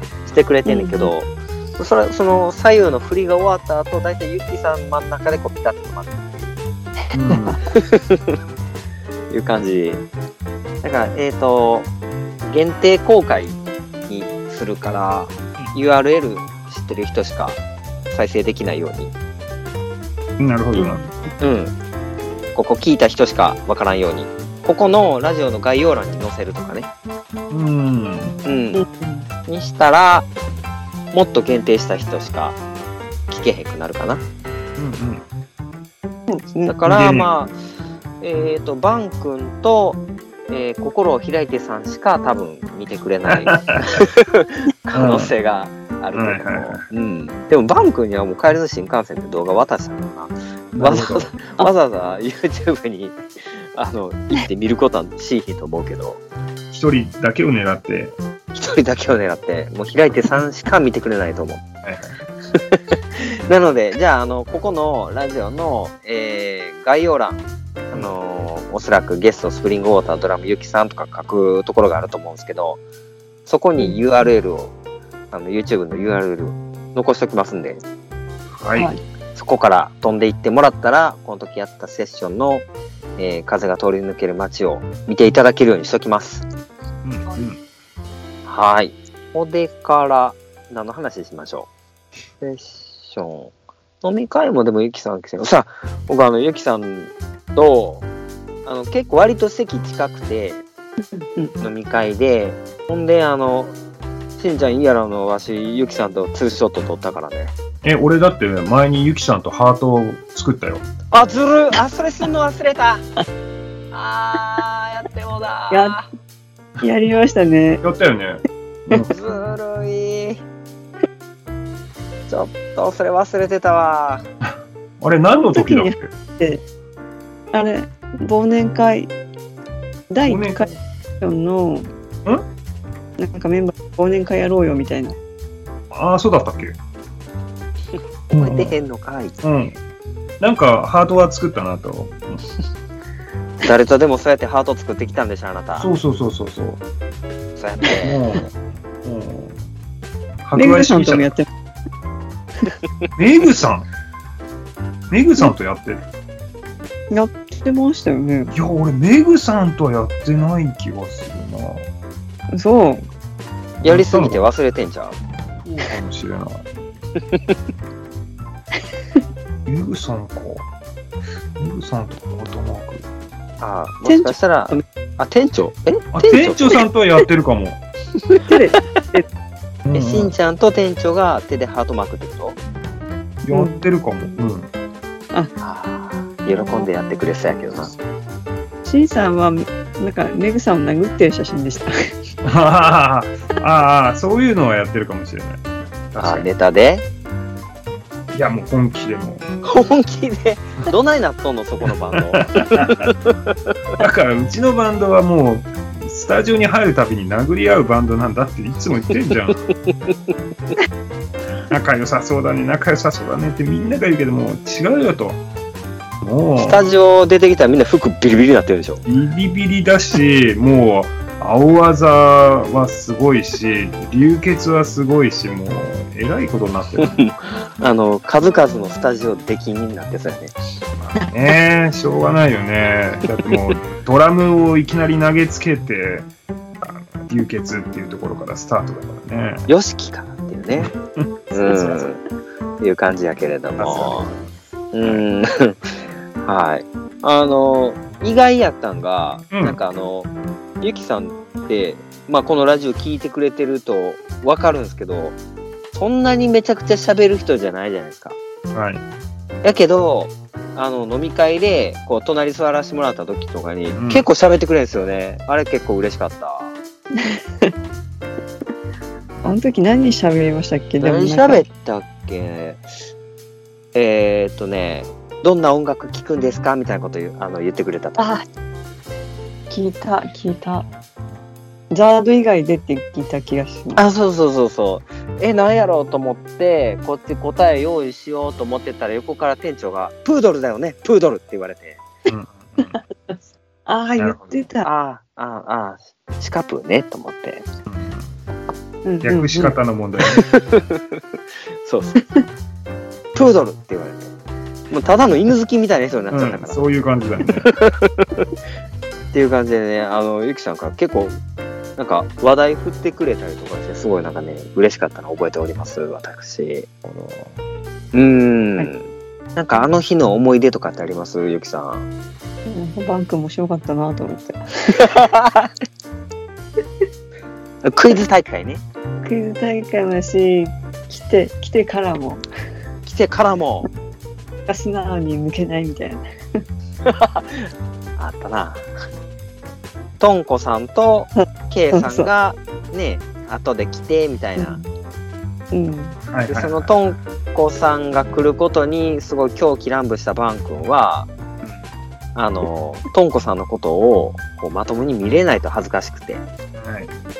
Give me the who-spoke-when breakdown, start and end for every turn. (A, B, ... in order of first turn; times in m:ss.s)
0:00.3-0:06.2 A
0:00.6-0:01.1 B
0:07.1-0:07.6 C
0:07.3-0:07.6 B
0:07.7-0:08.3 A
0:09.3-0:10.0 A
0:10.8-0:11.9 A
0:12.4-0:19.1 A
0:20.4-0:21.0 C
0:20.7-0:21.3 B
0:21.4-0:21.7 A
0:22.5-0:26.9 A
0:27.5-0:28.4 C
0:28.4-0:28.8 A
0:28.7-0:29.3 B
0:29.5-0:30.3 A
0:31.1-0:32.6 A
0:33.3-0:34.2 A
0:34.8-0:35.2 C
0:36.3-0:36.8 B
0:36.7-0:37.6 A
0:36.9-0:37.3 C
0:38.2-0:53.2 A
0:43.3-0:43.8 C
0:44.9-0:45.3 C
0:46.1-0:46.8 C
0:50.7-0:51.3 C
0:53.7-0:56.2 A
0:56.7-0:58.2 C
0:58.5-1:01.6 A
1:01.8-1:02.2 C
1:02.5-1:12.8 A
1:13.4-1:14.7 A
1:15.3-1:17.8 A
1:18.5-1:18.9 C
1:19.3-1:22.6 A
1:23.2-1:26.4 A
1:27.0-1:27.6 C
1:28.4-1:31.7 A
1:32.4-1:38.0 A
1:38.6-1:40.6 A
1:41.2-1:41.5 B
1:41.6-1:43.7 A
1:44.4-1:47.5 A
1:47.8-1:50.8 C
1:51.1-1:53.0 A
1:53.9-1:56.0 A
1:55.7-1:56.0 B
1:56.8-1:57.8 B
1:57.8-1:59.1 C
1:59.1-2:00.4 A
2:02.3-2:04.2 A
2:04.4-2:06.1 C
2:05.5-2:06.6 B
2:07.5-2:09.1 B
2:10.1-2:11.9 B
2:10.2-2:10.7 C
2:13.2-2:15.2 B
2:15.9-2:16.8 C
2:18.3-2:18.7 C
2:18.4-2:19.4 A
2:19.4-2:19.8 C
2:20.4-2:22.4 C
2:23.6-2:25.9 A
2:25.8-2:26.8 C
2:27.6-2:28.2 A
2:28.0-2:28.5 C
2:29.0-2:29.5 C
2:30.4-2:31.3 C
2:30.6-2:31.5 B
2:33.2-2:33.9 C
2:35.1-2:36.0 C
2:37.1-2:38.5 B
2:38.5-2:41.8 C
2:42.5-2:43.1 B
2:43.8-2:44.5 C
2:43.8-2:45.2 A
2:45.8-2:46.6 C
2:49.6-2:50.6 C
2:51.6-2:53.0 C
2:53.6-2:56.7 A
2:54.0-2:54.8 B
2:56.1-2:57.8 C
2:58.4-2:59.2 B
2:59.8-3:00.3 C
2:59.9-3:02.6 A
3:03.4-3:04.7 C
3:03.5-3:03.8 B
3:05.6-3:08.0 A
3:08.8-3:12.1 B
3:12.4-3:16.5 C
3:16.2-3:17.0 A
3:18.3-3:19.5 C
3:19.6-3:23.7 A
3:22.1-3:23.1 C
3:24.0-3:29.6 C
3:31.7-3:35.4 C
3:36.2-3:36.8 C
3:36.6-3:39.0 A
3:39.0-3:47.2 C
3:47.0-3:50.5 A
3:51.0-3:56.3 C
3:56.8-3:59.7 C
3:59.7-4:00.9 A
4:00.8-4:01.3 C
4:01.5-4:02.2 A
4:01.7-4:02.0 B
4:02.8-4:04.3 A
4:03.8-4:04.5 C
4:04.9-4:10.3 A
4:09.5-4:09.8 C
4:10.8-4:15.4 A
4:15.9-4:18.4 A
4:18.7-4:19.0 C
4:19.6-4:26.7 A
4:23.9-4:24.2 C
4:27.2-4:27.7 B
4:29.4-4:31.6 B
4:31.0-4:32.8 A
4:33.9-4:38.3 A
4:38.2-4:38.4 B
4:39.7-4:40.9 B
4:41.9-4:44.0 B
4:43.9-4:52.0 A
4:52.3-4:53.0 C
4:52.8-4:54.9 B
4:54.2-4:54.6 C
4:54.8-4:57.6 A
4:57.9-4:58.3 C
4:59.0-4:59.7 B
4:59.2-5:00.4 C
5:00.3-5:01.2 A
5:01.8-5:02.1 A
5:02.2-5:02.4 B
5:03.3-5:04.3 A
5:04.9-5:06.8 A
5:06.3-5:07.7 C
5:07.6-5:08.5 A
5:09.3-5:11.4 A
5:12.0-5:16.9 A
5:17.0-5:17.6 C
5:18.1-5:22.1 A
5:22.6-5:25.2 B
5:24.9-5:25.7 A
5:27.8-5:28.8 A
5:29.2-5:32.4 B
5:33.0-5:33.9 A
5:34.7-5:36.6 B
5:37.0-5:37.7 A
5:38.2-5:38.9 A
5:40.2-5:44.8 A
5:41.4-5:42.3 B
5:44.6-5:44.8 B
5:45.7-5:46.2 B
5:46.3-5:47.1 C
5:46.5-5:51.3 A
5:52.3-5:56.4 A
5:56.8-5:57.1 C